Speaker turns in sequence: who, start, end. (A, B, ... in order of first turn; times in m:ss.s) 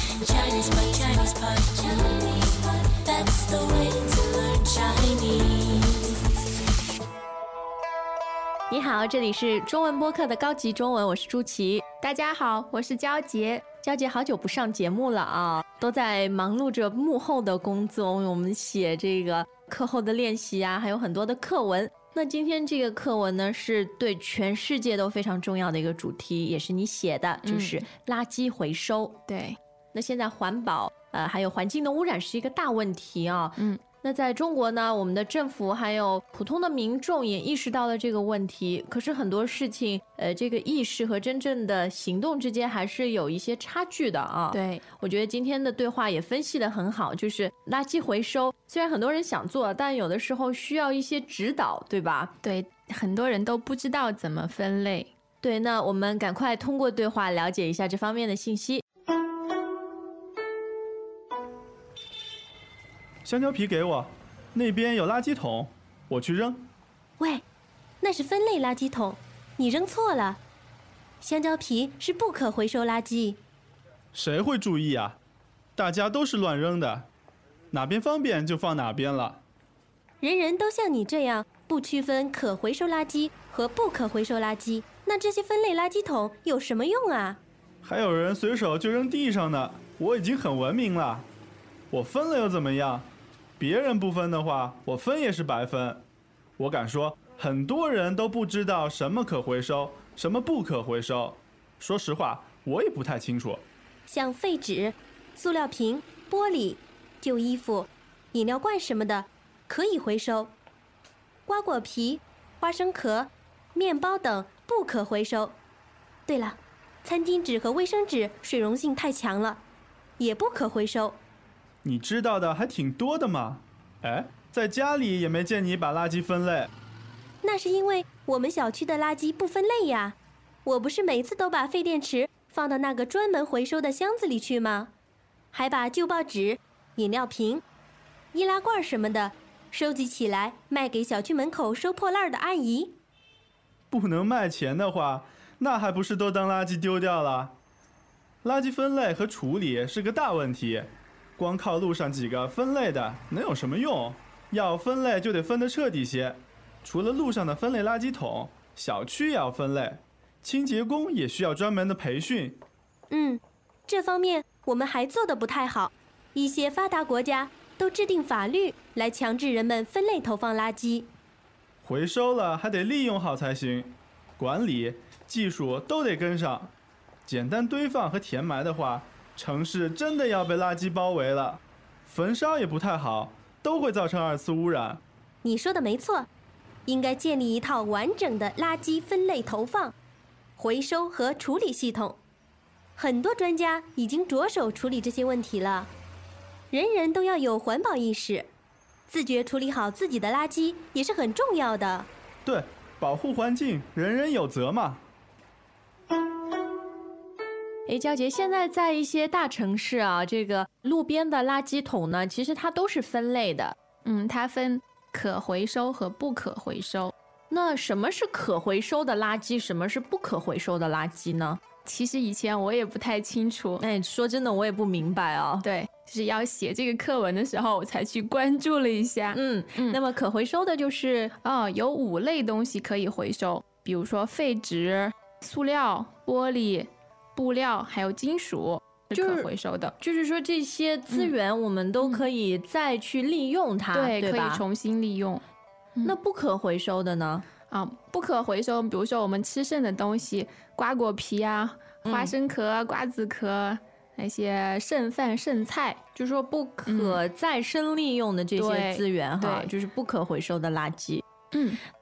0:00.2-0:06.1 A
0:08.7-0:11.8 B
0:12.0-0:13.6 C
0:13.8-0:29.2 B
0:27.4-0:27.8 C
0:29.3-0:29.6 C
0:29.9-0:52.3 B
0:52.4-0:55.1 C
0:55.4-0:58.8 B
1:03.2-1:06.7 D
1:08.0-1:10.4 E
1:11.2-1:13.4 E
1:14.1-1:15.2 D
1:15.8-1:17.1 D
1:17.7-1:19.4 D
1:20.2-1:27.4 E
1:27.8-1:31.3 D
1:31.9-1:36.0 D
1:36.6-1:43.7 D
1:44.1-1:50.6 E
1:51.5-1:55.6 E
1:56.3-1:59.6 E
2:00.2-2:01.2 E
2:01.8-2:06.7 D
2:07.4-2:14.9 E
2:15.5-2:17.6 E
2:18.3-2:23.0 E
2:23.9-2:27.6 D
2:28.4-2:42.6 D
2:43.1-2:51.1 E
2:51.8-2:56.7 D
2:57.2-3:05.0 D
3:05.4-3:06.3 E
3:06.8-3:09.9 E
3:10.6-3:12.2 E
3:13.0-3:15.9 E
3:16.7-3:18.5 E
3:19.1-3:22.1 E
3:22.4-3:25.0 D
3:27.9-3:33.8 B
3:34.1-3:37.1 C
3:37.5-3:41.6 B
3:41.9-3:43.8 C
3:43.8-3:45.6 B
3:45.6-3:49.3 C
3:49.3-3:51.3 B
3:51.4-3:59.9 C
3:59.1-3:59.5 B
4:00.0-4:04.6 B
4:04.0-4:05.4 C
4:06.0-4:07.4 B
4:07.7-4:16.0 C
4:12.0-4:12.3 B
4:16.1-4:21.2 B
4:18.6-4:19.6 C